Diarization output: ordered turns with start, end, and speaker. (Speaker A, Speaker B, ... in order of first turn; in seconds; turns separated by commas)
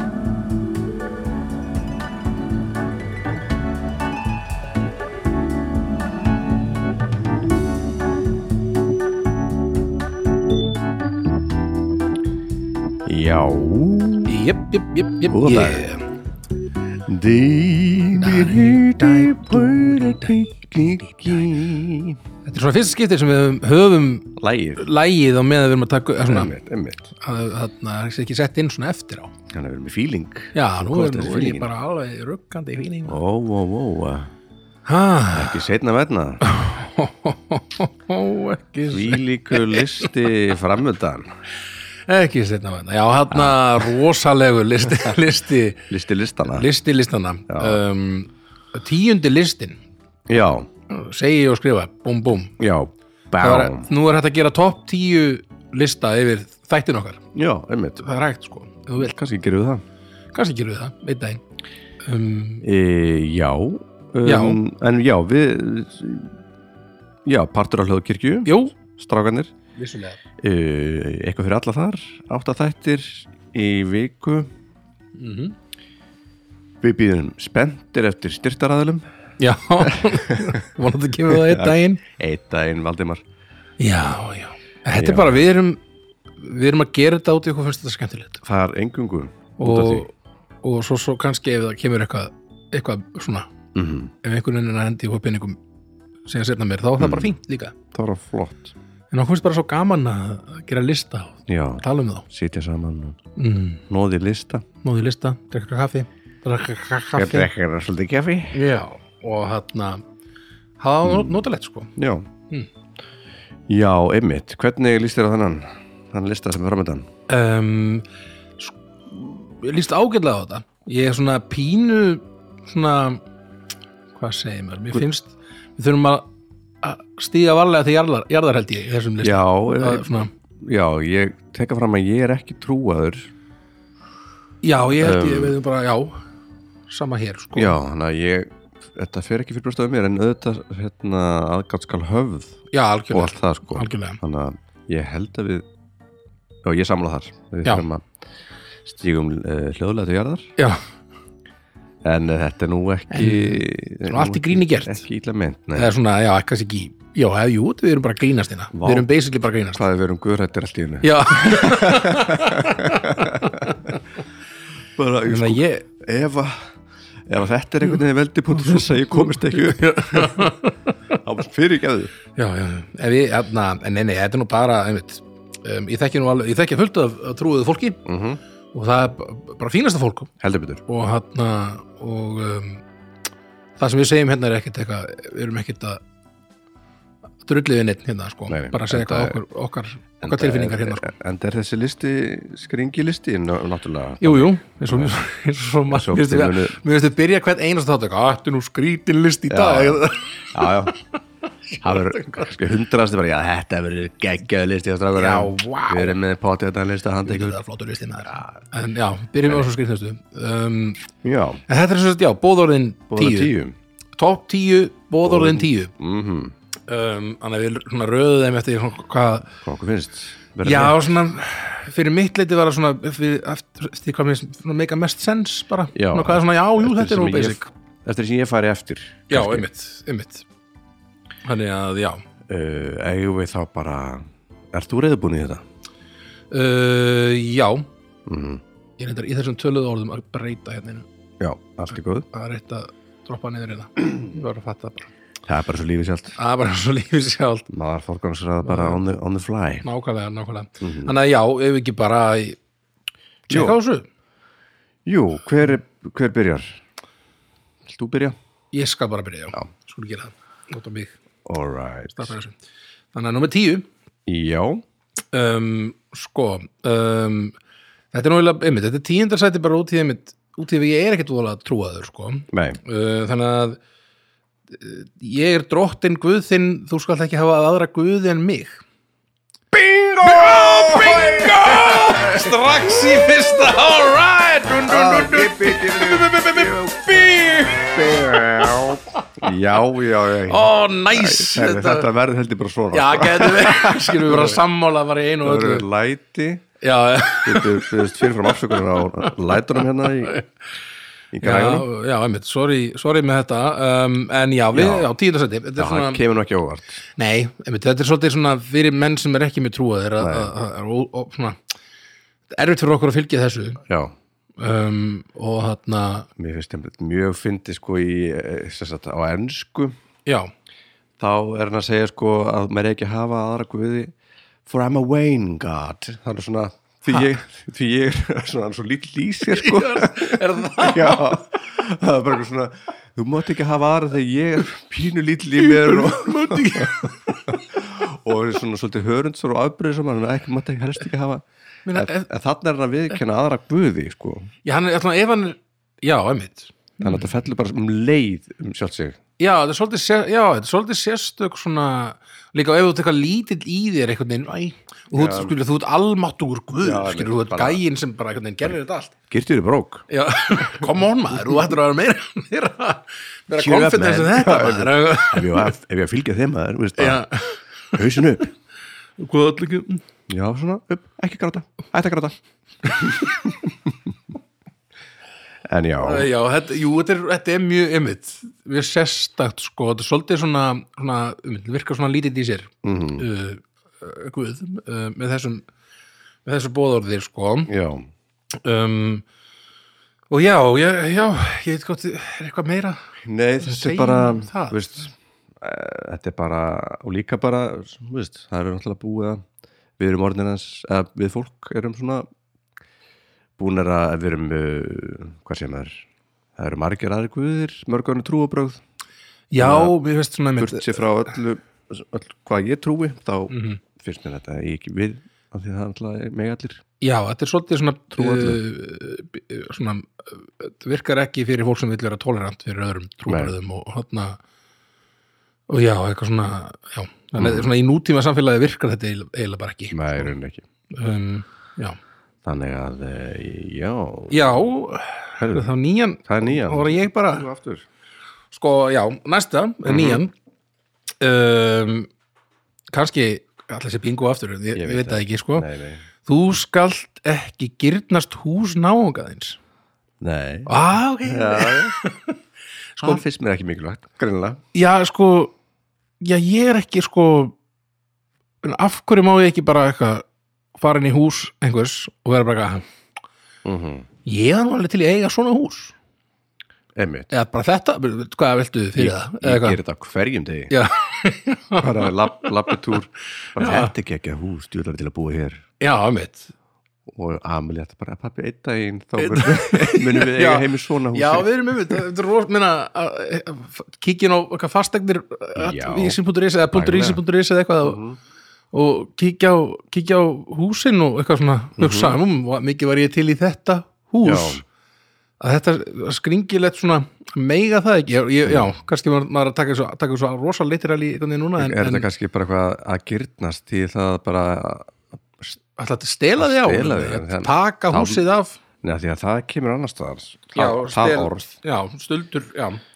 Speaker A: 13.1-14.3, Speaker B: 14.2-16.0, Speaker A: 15.3-15.8, Speaker A: 17.1-22.2, Speaker B: 18.1-21.6, Speaker B: 22.4-26.5, Speaker A: 24.4-24.8, Speaker A: 26.3-27.1, Speaker B: 27.1-29.3, Speaker A: 29.5-31.7, Speaker B: 30.5-33.2, Speaker A: 33.1-34.3, Speaker B: 34.9-35.6, Speaker A: 35.3-36.4, Speaker B: 36.4-40.1, Speaker A: 38.9-41.3, Speaker B: 42.1-45.9, Speaker A: 43.3-43.8, Speaker A: 45.9-46.7, Speaker B: 46.5-49.8, Speaker A: 47.5-47.8, Speaker A: 50.3-50.7, Speaker B: 50.9-52.5, Speaker A: 52.6-53.9, Speaker B: 53.4-57.2, Speaker A: 57.3-58.0, Speaker B: 58.0-59.1, Speaker A: 59.0-59.8, Speaker B: 60.3-61.4, Speaker B: 62.0-62.6, Speaker A: 62.6-66.4, Speaker B: 64.2-64.6, Speaker A: 67.2-69.5, Speaker B: 68.5-68.7, Speaker B: 69.8-70.2, Speaker A: 70.4-74.5, Speaker B: 75.2-75.5, Speaker A: 76.8-79.0, Speaker B: 79.4-82.0, Speaker A: 79.8-80.6, Speaker A: 81.3-83.2, Speaker B: 83.8-85.8, Speaker A: 84.9-85.4, Speaker B: 86.4-88.4, Speaker A: 88.4-90.0, Speaker B: 89.6-90.1, Speaker B: 90.6-93.5, Speaker A: 93.7-94.1, Speaker B: 94.2-95.6, Speaker B: 96.3-97.7, Speaker A: 97.0-97.3, Speaker A: 97.9-98.7, Speaker B: 99.1-102.2, Speaker A: 101.5-103.2, Speaker B: 103.4-103.8, Speaker A: 103.9-104.7, Speaker B: 104.8-107.5, Speaker A: 107.2-108.6, Speaker B: 108.5-110.0, Speaker B: 110.8-111.9, Speaker A: 111.0-111.4, Speaker A: 112.0-112.3, Speaker A: 113.7-117.1, Speaker B: 117.3-118.0, Speaker B: 118.6-123.2, Speaker B: 124.1-126.2, Speaker B: 126.8-130.3, Speaker A: 129.2-133.3, Speaker B: 134.6-136.2, Speaker A: 135.0-135.6, Speaker B: 136.9-137.8, Speaker A: 137.5-145.6, Speaker B: 142.7-144.2, Speaker A: 146.6-148.1, Speaker A: 148.8-150.5, Speaker A: 152.0-155.9, Speaker B: 153.1-155.0, Speaker B: 155.8-159.8, Speaker A: 158.7-159.1, Speaker A: 159.7-164.0, Speaker B: 161.0-164.0, Speaker A: 164.9-166.7, Speaker B: 165.3-165.9, Speaker A: 167.2-170.5, Speaker B: 168.6-171.2, Speaker A: 171.2-172.1, Speaker B: 172.3-178.0, Speaker A: 178.0-178.4, Speaker B: 178.7-180.3, Speaker A: 180.4-180.8, Speaker B: 180.9-182.8, Speaker B: 183.8-186.0, Speaker B: 187.4-191.1, Speaker A: 188.5-189.4, Speaker A: 190.2-195.2, Speaker B: 194.2-201.0, Speaker A: 195.9-196.8, Speaker A: 199.5-200.9, Speaker B: 201.7-202.5, Speaker A: 201.8-207.6, Speaker B: 205.1-206.2, Speaker B: 207.2-211.0, Speaker A: 211.2-211.6, Speaker B: 211.7-213.5, Speaker A: 213.1-213.8, Speaker B: 214.2-215.9, Speaker A: 215.2-216.5, Speaker B: 216.9-219.5, Speaker A: 219.6-221.1, Speaker B: 220.6-227.7, Speaker A: 225.9-229.7, Speaker B: 229.3-230.4, Speaker B: 231.4-232.2, Speaker A: 232.5-235.6, Speaker B: 236.5-237.9, Speaker A: 238.2-238.6, Speaker B: 239.0-241.1, Speaker A: 241.4-242.3, Speaker B: 242.3-245.1, Speaker A: 245.5-246.4, Speaker B: 246.3-247.7, Speaker A: 247.7-249.8, Speaker B: 248.6-249.0, Speaker B: 249.8-252.6, Speaker A: 250.8-251.1, Speaker A: 253.5-253.8, Speaker B: 253.5-254.1, Speaker A: 255.1-256.8, Speaker A: 257.8-258.3, Speaker B: 258.7-261.1, Speaker A: 261.4-262.3, Speaker B: 262.1-262.5, Speaker B: 263.1-263.9, Speaker A: 264.2-264.8, Speaker B: 265.3-267.5, Speaker B: 268.1-273.8, Speaker A: 272.5-272.8, Speaker B: 274.7-278.8, Speaker A: 279.7-282.6, Speaker B: 280.2-288.4, Speaker A: 284.8-294.6, Speaker B: 290.5-292.1, Speaker B: 292.9-295.9, Speaker A: 295.4-296.6, Speaker B: 296.8-300.5, Speaker A: 297.4-300.4, Speaker A: 301.3-301.9, Speaker B: 301.4-306.2, Speaker A: 304.7-305.1, Speaker A: 305.8-307.0, Speaker B: 307.1-311.6, Speaker A: 310.2-310.5, Speaker B: 312.5-313.8, Speaker A: 313.9-314.1, Speaker B: 314.6-316.3, Speaker A: 316.4-319.9, Speaker A: 321.2-324.1, Speaker A: 324.6-344.5, Speaker B: 329.5-331.4, Speaker B: 335.5-337.6, Speaker B: 341.9-342.3, Speaker B: 344.6-347.3, Speaker A: 347.0-349.2, Speaker B: 349.4-359.1, Speaker A: 355.1-355.6, Speaker A: 356.8-357.8, Speaker A: 359.3-360.0, Speaker B: 360.1-365.8, Speaker A: 360.6-360.9, Speaker A: 363.5-367.2, Speaker B: 367.0-368.5, Speaker A: 367.9-368.5, Speaker B: 369.2-370.0, Speaker A: 370.3-372.4, Speaker B: 372.8-373.3, Speaker A: 372.9-373.9, Speaker A: 375.7-376.3, Speaker B: 376.0-385.6, Speaker A: 382.8-383.2, Speaker B: 386.4-387.7, Speaker A: 387.7-388.1, Speaker B: 388.6-389.2, Speaker B: 390.3-393.0, Speaker A: 393.2-399.4, Speaker B: 393.6-394.8, Speaker A: 400.0-402.2, Speaker A: 403.6-406.0, Speaker A: 406.6-408.8, Speaker B: 409.5-411.1, Speaker A: 409.6-409.9, Speaker A: 410.6-416.8, Speaker B: 413.5-413.8, Speaker B: 417.0-424.4, Speaker A: 418.1-418.6, Speaker A: 423.3-423.5, Speaker B: 425.7-430.3, Speaker A: 427.4-427.7, Speaker A: 429.9-430.6, Speaker B: 430.9-432.0, Speaker A: 432.4-434.6, Speaker B: 434.3-437.5, Speaker A: 435.4-435.7, Speaker A: 436.2-437.9, Speaker B: 438.5-440.3, Speaker A: 439.9-440.2, Speaker B: 441.2-442.1, Speaker B: 442.9-445.7, Speaker A: 444.7-446.0, Speaker B: 446.2-449.6, Speaker A: 450.2-452.0, Speaker B: 450.7-452.4, Speaker B: 453.0-453.2, Speaker A: 453.0-454.6, Speaker B: 454.7-455.5, Speaker B: 456.2-457.5, Speaker B: 458.6-462.8, Speaker A: 463.6-464.1, Speaker B: 464.2-465.9, Speaker A: 466.9-467.3, Speaker B: 467.3-469.8, Speaker A: 468.9-470.7, Speaker B: 470.7-472.8, Speaker A: 471.8-475.6, Speaker B: 473.5-473.9, Speaker B: 475.8-476.5, Speaker A: 477.1-482.0, Speaker B: 479.2-488.0, Speaker A: 485.6-486.2, Speaker A: 486.7-487.2, Speaker A: 487.8-488.2, Speaker B: 488.7-494.6, Speaker A: 491.8-492.2, Speaker A: 494.2-494.6, Speaker B: 495.4-502.1, Speaker A: 501.6-505.6, Speaker B: 505.8-508.6, Speaker A: 506.4-508.2, Speaker A: 508.8-511.6, Speaker B: 510.5-512.8